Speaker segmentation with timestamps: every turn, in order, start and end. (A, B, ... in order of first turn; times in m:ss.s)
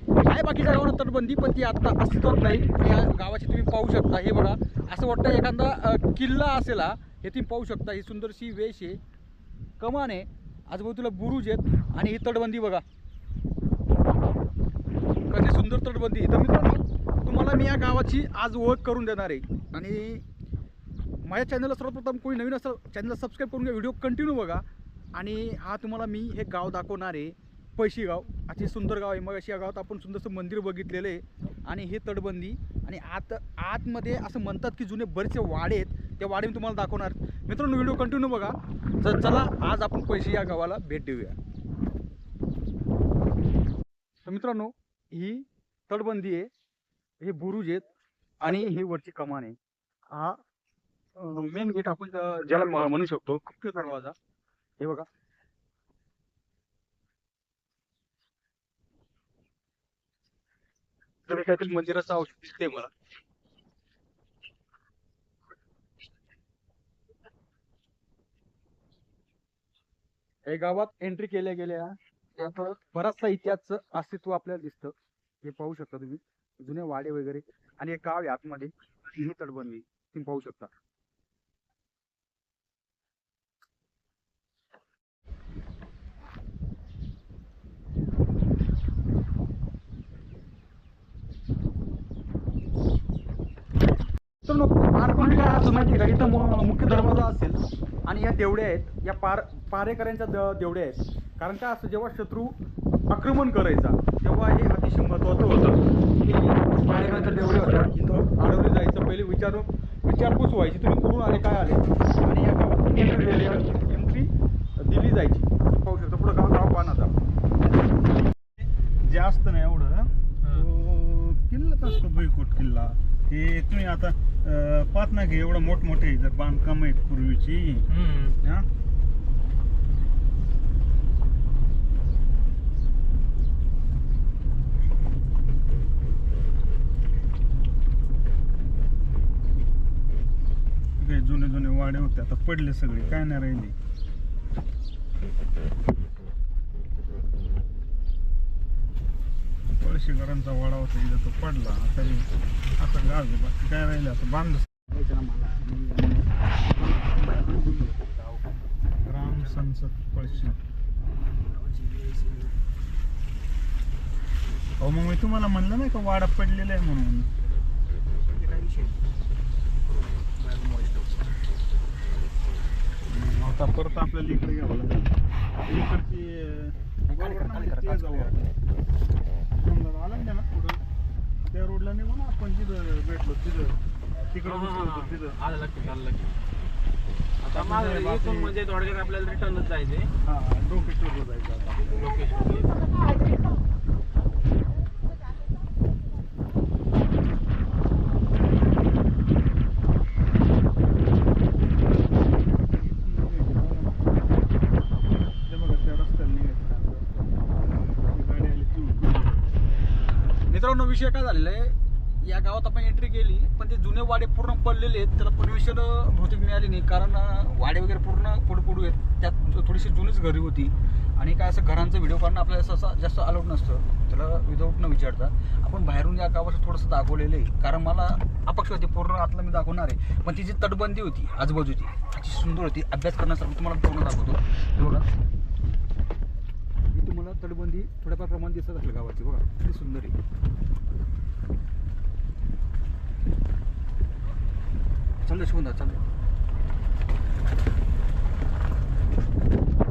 0:00.2-0:09.0 A
0:09.8-0:12.8 A
0:15.3-0:20.2 A
0:21.2-0:41.4 A
0:44.3-0:46.5 A
0:47.2-0:47.9 A
0:48.4-0:49.6 A
0:50.1-0:50.4 A
0:51.2-0:54.2 A
0:54.8-0:55.1 A
1:01.3-1:02.9 A
1:10.5-1:20.7 A
1:34.4-1:42.5 A
1:43.1-1:57.1 A
1:59.0-2:07.9 B
2:00.4-2:00.7 C
2:07.9-2:08.4 C
2:21.0-2:23.7 B
2:29.8-2:34.7 B
2:34.9-2:36.3 A
2:37.0-2:38.5 A
2:39.1-2:40.6 B
2:41.5-2:42.5 A
2:44.8-2:47.3 B
2:48.4-2:49.0 A
2:50.4-2:51.3 A
2:53.1-2:55.1 B
2:55.7-2:58.4 B
2:57.1-2:58.4 A
2:59.6-3:00.8 B
3:01.5-3:03.8 B
3:04.3-3:05.4 B
3:04.4-3:06.4 C
3:07.4-3:10.1 C
3:07.6-3:08.5 B
3:10.3-3:12.0 B
3:11.9-3:13.0 C
3:22.5-3:24.1 B
3:25.4-3:27.3 B
3:28.0-3:29.2 B
3:30.5-3:55.1 A
3:56.9-4:00.2 A
4:05.2-4:06.0 A